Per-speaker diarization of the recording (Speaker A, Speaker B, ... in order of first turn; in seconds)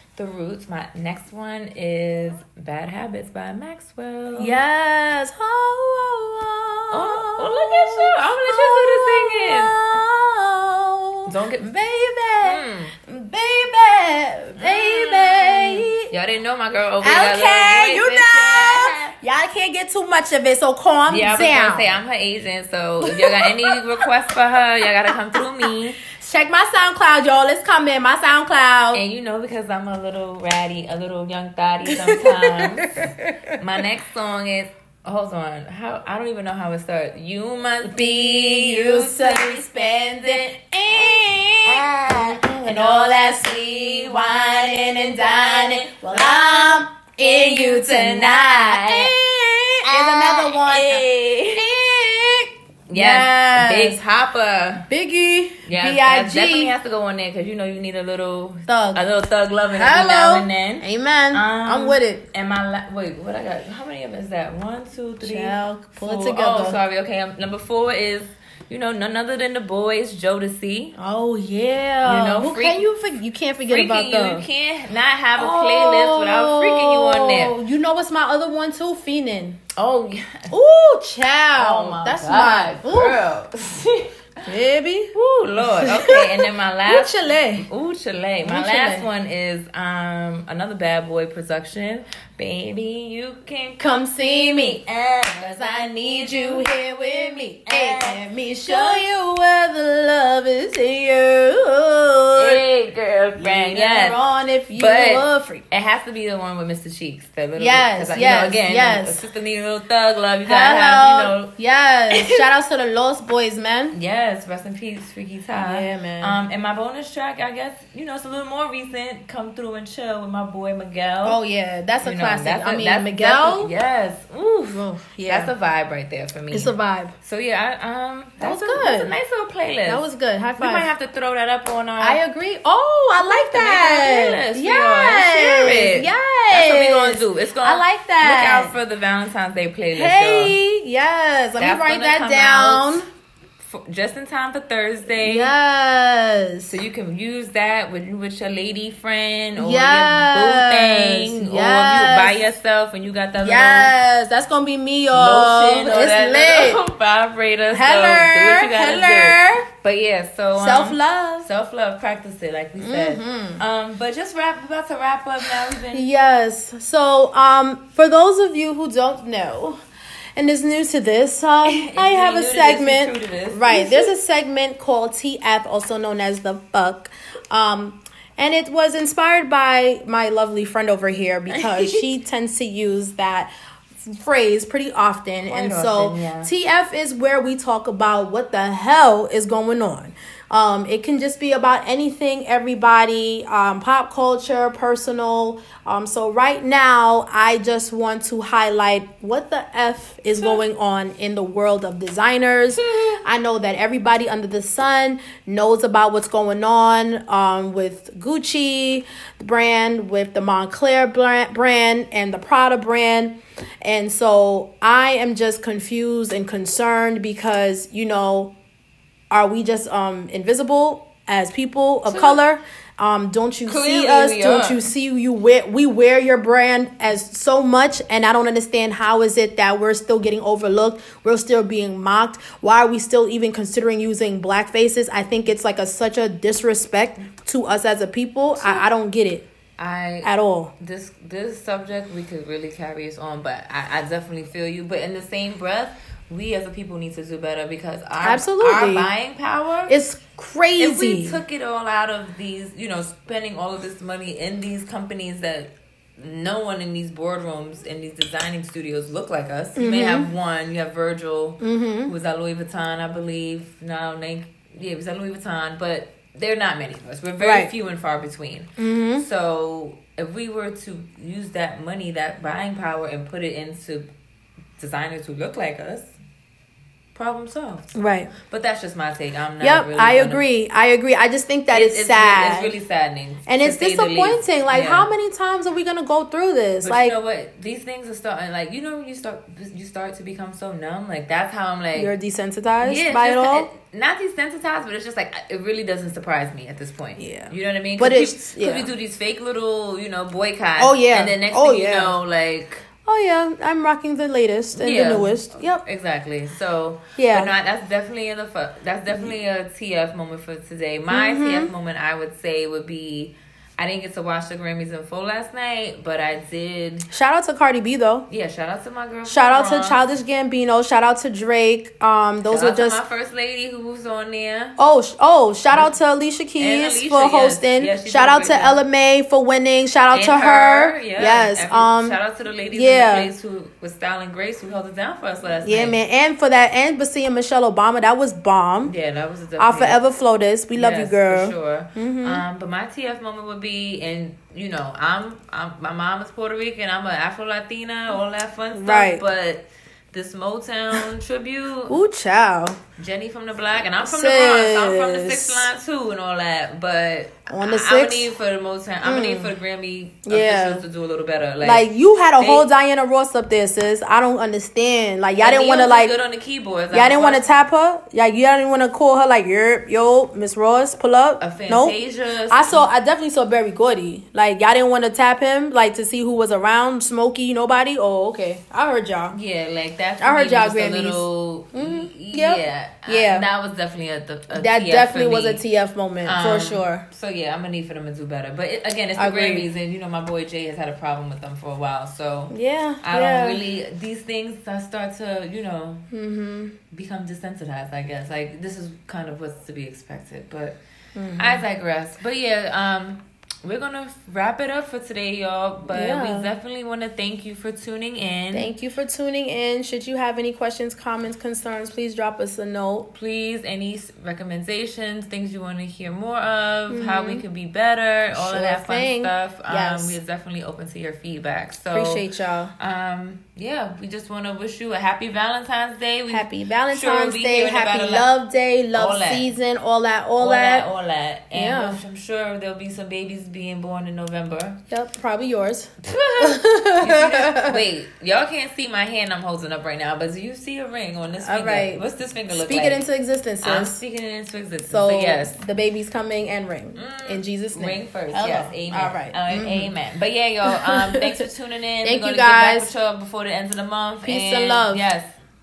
Speaker A: 0.2-4.6, 6.9-10.0, 11.3-11.7, 12.4-12.9, 14.6-19.1, 21.1-26.0, 28.9-40.6, 41.7-49.1, 49.9-51.6, 52.9-54.9, 55.7-70.9, 72.0-72.8, 73.7-77.5, 79.8-80.5, 81.6-84.1, 85.2-99.0, 102.4-104.2, 104.8-111.5, 112.1-112.5, 113.9-121.4, 122.0-130.0, 130.6-132.2, 133.2-140.6, 141.6-143.0, 143.6-145.5, 146.7-153.9, 155.1-166.1, 171.7-174.1, 181.5-182.0, 185.5-186.5, 202.7-203.2, 222.1-222.4, 223.7-224.8, 238.6-238.9, 239.8-250.0, 250.8-274.1, 274.8-276.1, 277.1-280.4, 281.7-285.1, 286.8-292.1, 292.8-302.8, 304.7-317.1, 318.3-320.0, 322.5-324.8, 325.7-325.9, 326.6-328.8, 330.1-336.0, 338.9-340.0, 340.8-351.9, 353.0-362.7, 365.4-367.5, 371.4-372.9, 379.3-385.6, 386.2-396.1, 396.9-400.8, 401.4-408.7, 413.1-422.2, 422.8-428.3, 428.9-429.5, 430.4-434.8, 436.0-443.0, 443.6-445.5, 447.0-455.3
Speaker B: 4.4-16.1, 17.0-22.0, 23.0-24.0, 26.0-29.0, 31.9-33.5, 37.8-54.0, 54.9-56.7, 58.7-59.0, 59.7-62.3, 65.2-66.8, 71.0-74.5, 75.4-79.6, 80.5-83.2, 84.5-87.7, 88.4-89.1, 93.8-94.8, 95.3-102.6, 103.4-105.6, 107.6-109.2, 110.5-114.0, 115.5-116.4, 121.2-123.7, 124.8-125.5, 126.5-127.2, 128.4-129.2, 129.9-130.9, 132.0-138.8, 139.9-143.1, 145.1-146.8, 149.6-152.5, 153.4-156.8, 157.7-159.7, 160.6-161.5, 162.8-163.6, 165.9-169.8, 170.4-218.5, 219.3-239.5, 240.2-240.7, 248.2-249.1, 249.9-251.4, 259.8-260.3, 261.6-262.1, 267.4-267.7, 268.8-269.3, 277.9-278.3, 279.6-282.7, 283.5-287.2, 291.9-293.7, 297.2-298.9, 300.8-302.2, 303.1-305.8, 307.2-307.5, 311.1-311.7, 317.1-318.3, 319.3-323.0, 324.8-332.2, 332.7-333.3, 335.6-338.9, 339.6-342.4, 348.7-349.2, 351.9-352.8, 354.0-355.7, 357.5-358.3, 359.0-359.5, 360.3-360.8, 361.6-366.1, 366.9-372.0, 372.5-379.4, 380.2-383.5, 384.5-387.1, 389.2-389.7, 392.5-393.6, 396.1-396.8, 401.1-401.7, 405.9-406.5, 408.5-413.1, 416.9-417.4, 418.3-420.2, 421.9-422.7, 426.3-430.9, 431.5-432.0, 434.9-437.8, 441.4-444.0, 444.9-449.9, 450.6-451.5, 452.0-452.9, 454.2-455.0